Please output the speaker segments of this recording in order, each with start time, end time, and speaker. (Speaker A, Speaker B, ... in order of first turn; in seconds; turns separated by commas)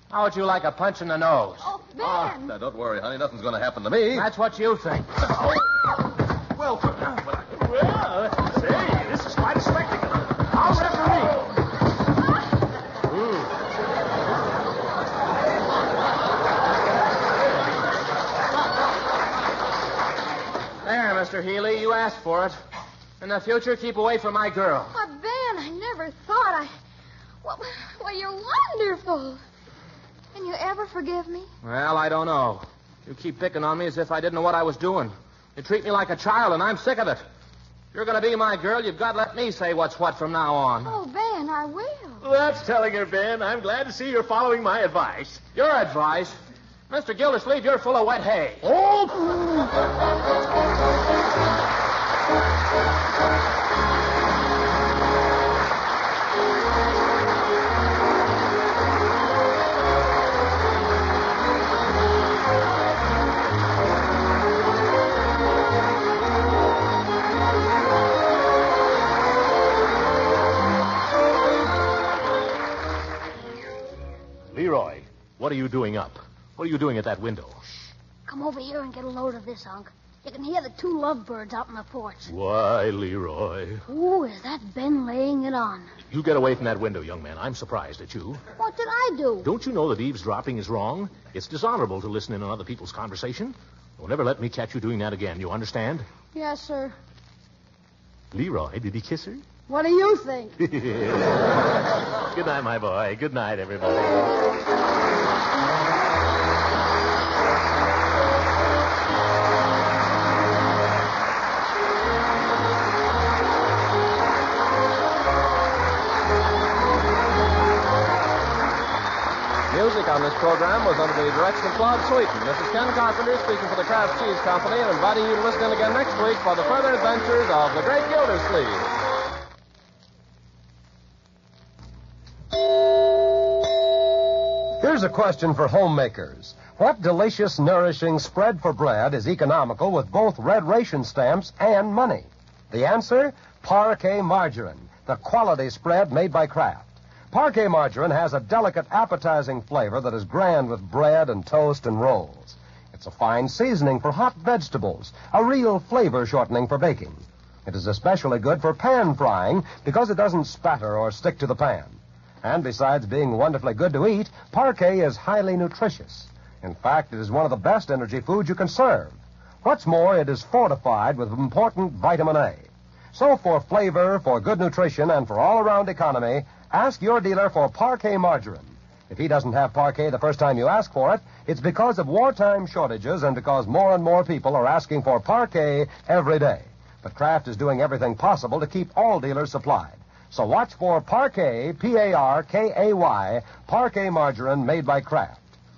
Speaker A: 0.1-1.7, Speaker B: 1.6-2.5, Speaker C: 2.0-4.3, Speaker A: 4.1-5.2, Speaker C: 6.5-7.2, Speaker D: 7.5-11.5, Speaker A: 20.8-22.6, Speaker A: 23.2-24.9, Speaker B: 24.9-26.7, Speaker B: 27.4-29.4, Speaker B: 30.3-31.5, Speaker A: 31.6-37.2, Speaker A: 37.9-40.9, Speaker B: 40.8-42.2, Speaker D: 42.2-45.4, Speaker A: 45.5-46.4, Speaker A: 46.9-49.0, Speaker D: 74.5-77.6, Speaker E: 78.3-82.3, Speaker D: 82.3-83.8, Speaker E: 83.9-85.9, Speaker D: 86.1-88.4, Speaker E: 88.6-89.5, Speaker D: 89.4-96.0, Speaker E: 96.3-96.9, Speaker D: 98.3-99.4, Speaker E: 99.7-100.6, Speaker D: 100.6-101.5, Speaker D: 102.2-104.4, Speaker F: 119.7-128.9, Speaker G: 134.8-195.4